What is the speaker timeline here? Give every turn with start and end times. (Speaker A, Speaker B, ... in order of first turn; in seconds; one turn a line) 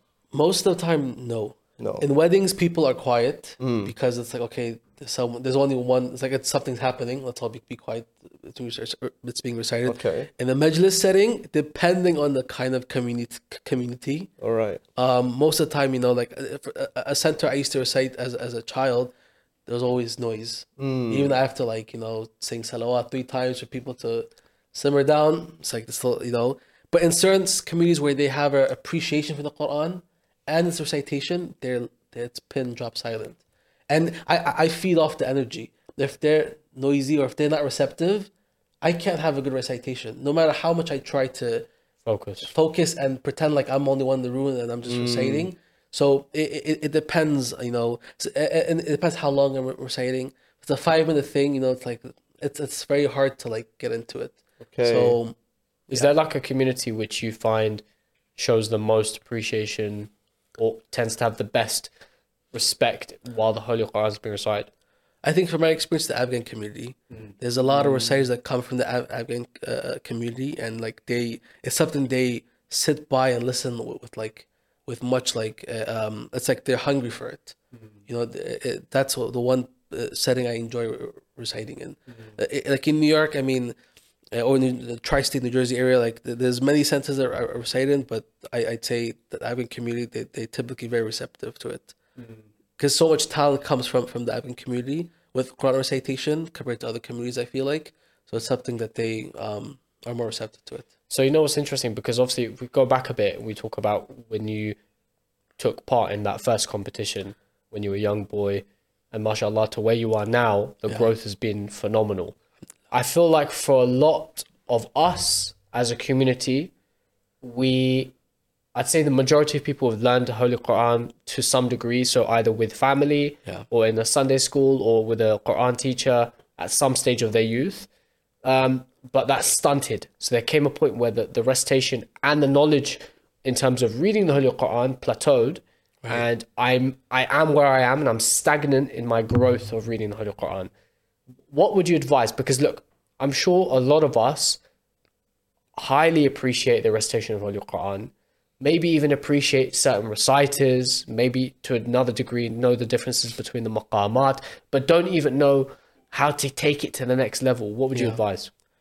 Speaker A: 0.3-14.3
Speaker B: 1.8-2.1
Speaker B: 3.6-3.9
Speaker B: 9.9-10.3
Speaker B: 14.4-14.8
Speaker A: 15.0-19.1
Speaker A: 19.7-38.3
Speaker B: 20.8-21.4
Speaker A: 38.8-41.7
Speaker C: 42.0-42.5
Speaker A: 42.5-55.4
Speaker B: 44.9-45.5
Speaker B: 54.6-55.2
Speaker C: 55.9-57.8
Speaker C: 58.4-61.9
Speaker C: 62.5-64.7
Speaker A: 65.2-77.6
Speaker C: 67.9-68.1
Speaker A: 78.1-83.8
Speaker A: 84.3-92.0
Speaker A: 92.8-100.9
Speaker C: 101.1-104.8
Speaker C: 105.6-112.4
Speaker C: 112.9-116.7
Speaker C: 117.4-118.1
Speaker C: 118.8-127.9
Speaker C: 128.4-140.7
Speaker C: 141.5-144.6
Speaker C: 145.8-158.5
Speaker A: 157.9-158.2